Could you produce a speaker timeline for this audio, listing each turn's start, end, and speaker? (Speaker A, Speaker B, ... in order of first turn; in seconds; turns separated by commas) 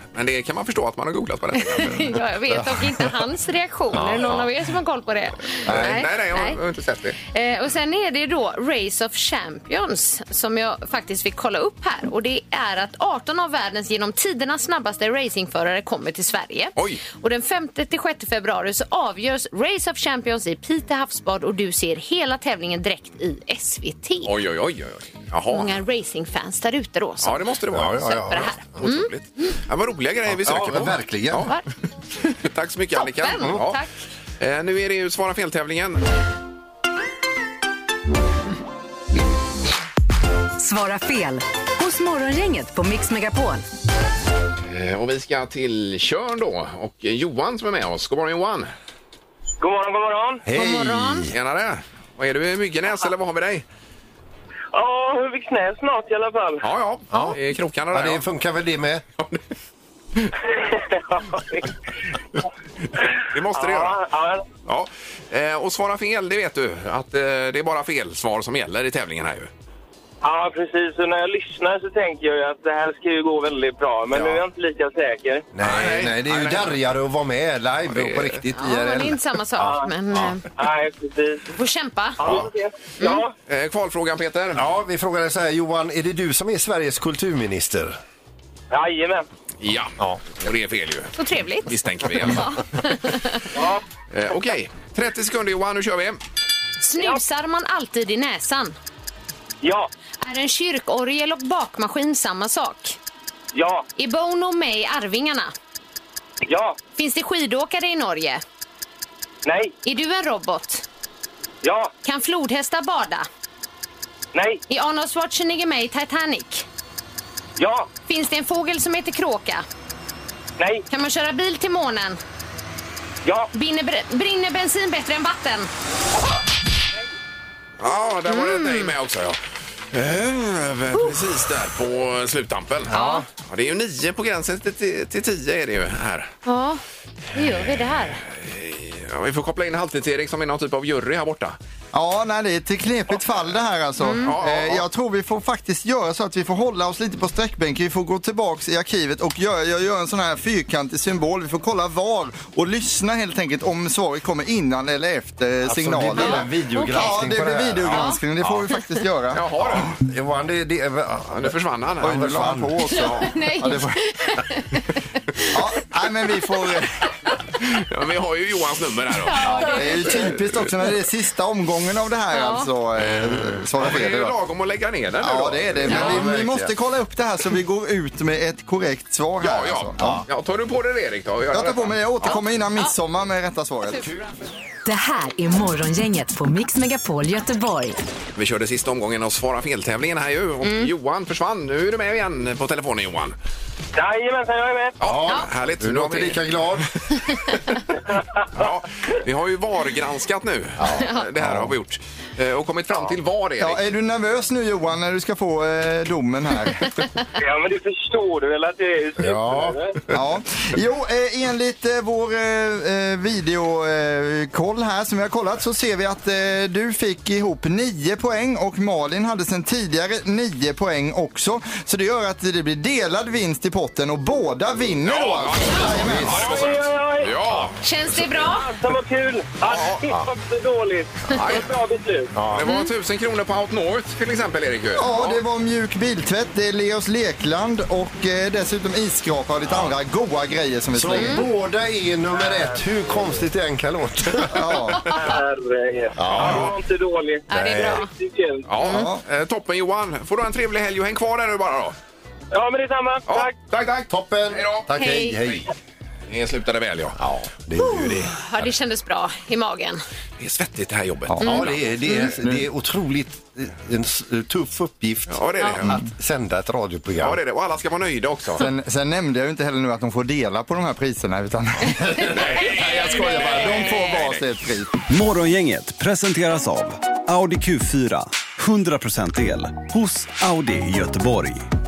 Speaker A: 0.1-2.2, Speaker B: 1.6-6.6, Speaker C: 3.9-4.5, Speaker A: 5.7-7.2, Speaker B: 7.3-24.3, Speaker A: 16.8-17.0, Speaker A: 24.2-25.8, Speaker B: 25.5-27.4, Speaker A: 27.2-31.6, Speaker C: 27.7-28.8, Speaker B: 27.9-29.1, Speaker C: 30.3-31.5, Speaker A: 32.4-33.8, Speaker B: 33.0-33.9, Speaker A: 34.4-36.0, Speaker D: 40.6-43.6, Speaker A: 44.7-48.7, Speaker E: 49.6-50.4, Speaker C: 50.5-51.3, Speaker B: 50.5-51.3, Speaker A: 51.3-53.6, Speaker E: 54.7-56.6, Speaker A: 56.6-58.2, Speaker C: 57.1-57.4, Speaker C: 57.9-59.0, Speaker E: 60.8-61.7, Speaker A: 63.0-64.0, Speaker E: 63.5-64.5, Speaker A: 64.7-69.5, Speaker E: 70.2-75.5, Speaker C: 74.1-74.4, Speaker C: 75.5-80.4, Speaker A: 75.6-76.8, Speaker A: 77.9-78.4, Speaker B: 78.5-80.5, Speaker E: 80.6-81.5, Speaker B: 81.5-82.2, Speaker E: 82.2-83.3, Speaker C: 82.2-82.5, Speaker A: 83.5-84.7, Speaker C: 84.5-88.0, Speaker E: 88.7-89.3, Speaker A: 89.6-92.6, Speaker B: 91.2-93.5, Speaker E: 93.5-93.8, Speaker A: 94.1-96.2, Speaker B: 96.8-98.8, Speaker E: 99.6-99.9, Speaker B: 100.2-103.0, Speaker E: 103.5-103.9, Speaker B: 104.0-105.5, Speaker E: 106.5-106.8, Speaker B: 107.0-108.4, Speaker E: 109.4-109.7, Speaker B: 109.8-110.8, Speaker E: 111.6-111.9, Speaker B: 112.0-113.3, Speaker E: 114.3-114.6, Speaker B: 114.7-116.7, Speaker E: 117.6-117.9, Speaker B: 118.1-119.6, Speaker E: 120.6-120.8, Speaker B: 120.9-122.2, Speaker E: 123.2-123.5, Speaker B: 123.5-125.7, Speaker A: 127.8-129.4, Speaker B: 128.3-128.9, Speaker A: 129.9-136.3, Speaker B: 132.9-133.2, Speaker B: 136.5-136.8, Speaker B: 137.3-138.2, Speaker A: 138.2-141.6, Speaker F: 141.9-159.4, Speaker B: 144.0-144.3, Speaker A: 144.2-144.8, Speaker C: 155.7-158.7, Speaker B: 156.1-157.2, Speaker B: 157.9-158.2, Speaker A: 159.3-159.9, Speaker C: 159.6-162.8, Speaker A: 161.3-162.3, Speaker F: 162.0-164.0, Speaker B: 162.9-165.6, Speaker F: 165.5-167.1, Speaker A: 167.6-170.5, Speaker B: 169.2-170.3, Speaker F: 169.5-174.4, Speaker B: 172.3-172.7, Speaker A: 173.1-176.2, Speaker F: 175.2-180.2, Speaker C: 175.8-176.7, Speaker B: 175.9-176.2, Speaker A: 179.4-182.4, Speaker C: 180.0-180.3, Speaker F: 181.5-184.1, Speaker D: 184.8-188.0, Speaker A: 188.4-193.4, Speaker B: 190.6-190.9, Speaker E: 194.0-195.0, Speaker A: 195.0-196.8, Speaker C: 195.0-196.9, Speaker A: 198.6-203.8, Speaker C: 200.8-201.8, Speaker B: 200.9-201.3, Speaker F: 203.6-206.9, Speaker E: 207.4-210.0, Speaker C: 209.2-209.8, Speaker F: 210.1-226.4, Speaker A: 225.1-227.8, Speaker C: 225.9-226.8, Speaker E: 226.3-227.3, Speaker C: 227.4-228.3, Speaker B: 227.8-228.7, Speaker E: 228.4-232.3, Speaker A: 229.7-230.1, Speaker C: 231.3-231.7, Speaker A: 231.3-231.7, Speaker C: 232.3-232.7, Speaker A: 232.5-235.4, Speaker B: 232.6-232.9, Speaker F: 235.0-241.4, Speaker C: 239.7-239.9, Speaker C: 240.9-244.7, Speaker B: 241.1-241.4, Speaker E: 242.5-242.7, Speaker F: 244.5-245.1, Speaker E: 245.1-248.7, Speaker C: 246.2-246.8, Speaker A: 246.3-246.8, Speaker B: 247.5-248.1, Speaker C: 247.5-248.1, Speaker A: 248.7-252.0, Speaker F: 248.8-249.2, Speaker E: 252.5-253.6, Speaker A: 253.3-254.9, Speaker C: 254.1-255.7, Speaker B: 254.9-255.4, Speaker A: 256.3-257.2, Speaker C: 257.2-258.4, Speaker B: 257.8-260.0, Speaker A: 260.4-261.8, Speaker F: 261.3-261.6, Speaker C: 261.4-267.4, Speaker B: 261.4-262.3, Speaker F: 262.4-262.7, Speaker A: 265.3-266.0, Speaker A: 267.2-268.6, Speaker F: 268.6-274.9, Speaker A: 272.3-274.4, Speaker B: 273.2-274.1, Speaker G: 275.1-281.7